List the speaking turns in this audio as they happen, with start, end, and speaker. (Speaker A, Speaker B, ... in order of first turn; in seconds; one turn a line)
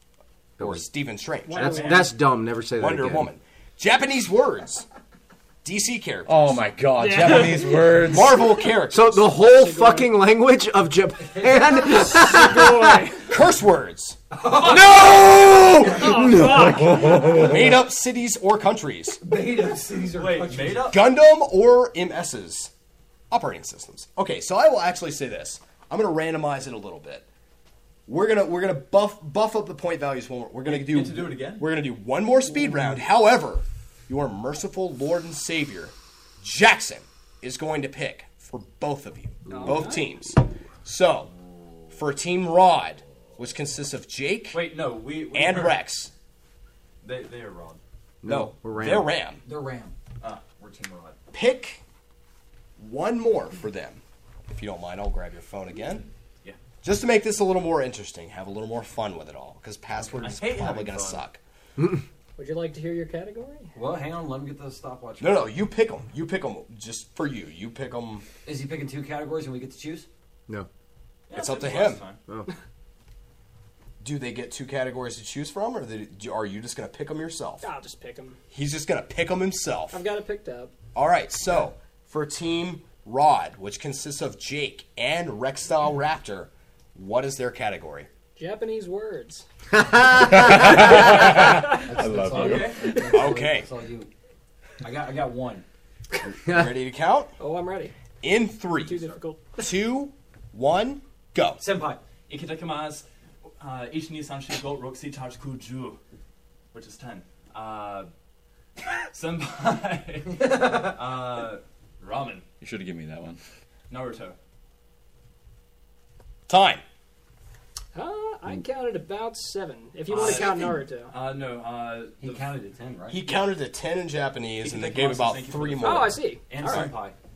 Speaker A: 0.6-0.9
Speaker B: 0.6-2.1
Speaker C: 1.4-2.1
Speaker A: 1.5-3.3
Speaker B: 2.8-4.9
Speaker B: 5.6-6.6
Speaker D: 6.3-8.4
Speaker C: 7.0-8.2
Speaker B: 8.0-9.3
Speaker A: 8.9-13.1
Speaker C: 9.3-10.2
Speaker E: 11.2-11.9
Speaker C: 11.9-13.3
Speaker B: 13.2-14.2
Speaker E: 14.3-15.2
Speaker C: 14.8-17.5
Speaker D: 14.9-17.7
Speaker B: 15.3-15.9
Speaker B: 17.3-19.2
Speaker E: 19.2-20.9
Speaker F: 20.1-21.1
Speaker B: 20.7-22.7
Speaker B: 23.3-27.3
Speaker B: 28.1-41.3
Speaker F: 30.6-31.7
Speaker C: 39.5-40.1
Speaker B: 41.9-46.1
Speaker F: 44.5-45.8
Speaker F: 47.0-47.8
Speaker A: 48.2-49.1
Speaker B: 48.2-49.4
Speaker E: 49.4-49.9
Speaker F: 50.2-51.1
Speaker B: 51.3-51.8
Speaker B: 52.8-56.0
Speaker B: 56.8-61.4
Speaker F: 60.0-61.2
Speaker A: 61.8-62.0
Speaker C: 62.4-63.7
Speaker E: 63.7-65.5
Speaker B: 65.2-68.2
Speaker E: 68.4-70.1
Speaker F: 71.3-72.2
Speaker B: 71.3-72.0
Speaker B: 74.0-77.6
Speaker C: 77.6-78.4
Speaker B: 78.5-80.0
Speaker C: 79.9-80.7
Speaker B: 80.9-88.1
Speaker C: 88.4-89.4
Speaker A: 89.7-91.0
Speaker D: 90.1-92.9
Speaker C: 90.9-91.6
Speaker E: 91.3-94.1
Speaker F: 92.3-92.9
Speaker B: 93.0-93.7
Speaker E: 94.8-95.6
Speaker B: 96.4-97.3
Speaker C: 97.4-97.9
Speaker B: 98.2-101.6
Speaker C: 98.8-99.7
Speaker E: 101.6-102.0
Speaker F: 102.3-103.0
Speaker F: 103.6-106.0
Speaker F: 106.7-108.1
Speaker F: 109.1-112.4
Speaker E: 110.4-110.9
Speaker D: 112.6-113.4
Speaker F: 113.9-114.4
Speaker B: 116.5-116.8
Speaker C: 117.9-121.1
Speaker E: 120.1-120.4
Speaker F: 120.2-120.5
Speaker F: 121.1-122.5
Speaker E: 122.2-123.3
Speaker B: 123.1-126.9
Speaker F: 124.6-126.0
Speaker C: 125.8-126.9
Speaker E: 126.5-127.1